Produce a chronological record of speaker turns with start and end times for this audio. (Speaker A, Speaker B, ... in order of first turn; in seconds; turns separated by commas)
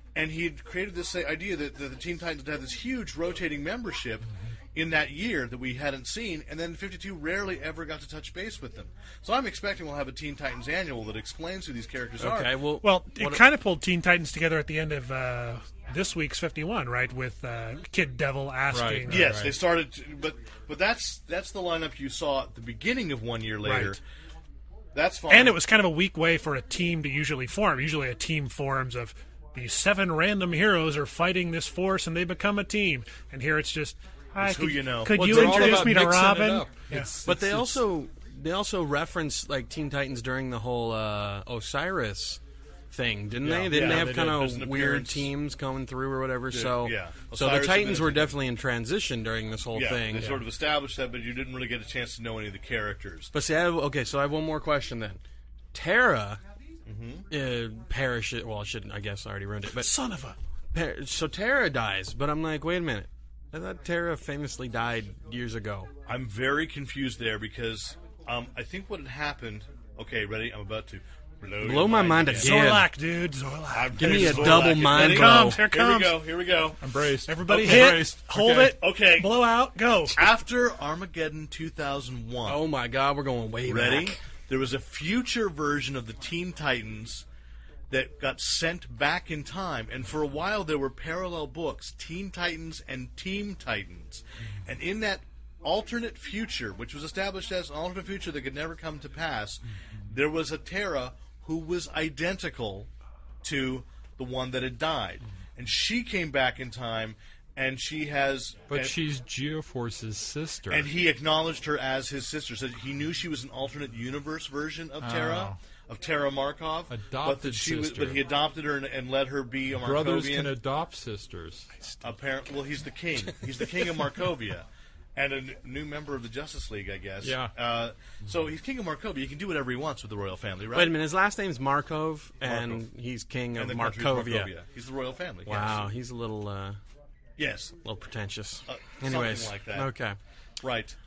Speaker A: 0.1-12.6, Speaker B: 12.2-13.4, Speaker C: 12.8-19.3, Speaker D: 18.7-19.6, Speaker A: 19.1-24.0, Speaker C: 23.6-24.0, Speaker A: 24.9-25.6, Speaker C: 25.3-37.1, Speaker A: 34.4-36.0, Speaker D: 35.1-37.8, Speaker B: 37.2-42.4, Speaker B: 42.9-50.4, Speaker D: 43.4-43.9, Speaker A: 43.5-45.3, Speaker A: 46.5-48.4, Speaker A: 49.7-53.3, Speaker B: 53.3-55.2, Speaker B: 55.7-56.4, Speaker A: 56.9-57.3, Speaker B: 57.3-59.9, Speaker C: 59.8-60.4, Speaker B: 60.7-65.9, Speaker A: 66.0-72.6, Speaker B: 71.6-72.9, Speaker C: 72.4-76.2, Speaker A: 73.7-76.8, Speaker B: 74.0-75.6, Speaker D: 76.8-78.8, Speaker C: 77.2-80.2, Speaker A: 77.5-79.4, Speaker A: 80.1-82.6, Speaker B: 82.5-84.2, Speaker A: 83.7-87.2, Speaker A: 87.9-102.9, Speaker A: 103.4-109.0, Speaker D: 108.7-110.9, Speaker A: 110.7-120.5, Speaker D: 115.0-115.6, Speaker D: 116.9-118.2, Speaker D: 119.8-122.0, Speaker A: 122.0-131.0, Speaker D: 127.2-127.5, Speaker B: 130.7-134.5, Speaker A: 132.4-132.8, Speaker A: 133.6-135.9, Speaker B: 135.4-136.8, Speaker A: 137.4-137.8, Speaker B: 137.8-140.2, Speaker A: 138.7-139.9, Speaker A: 140.6-140.9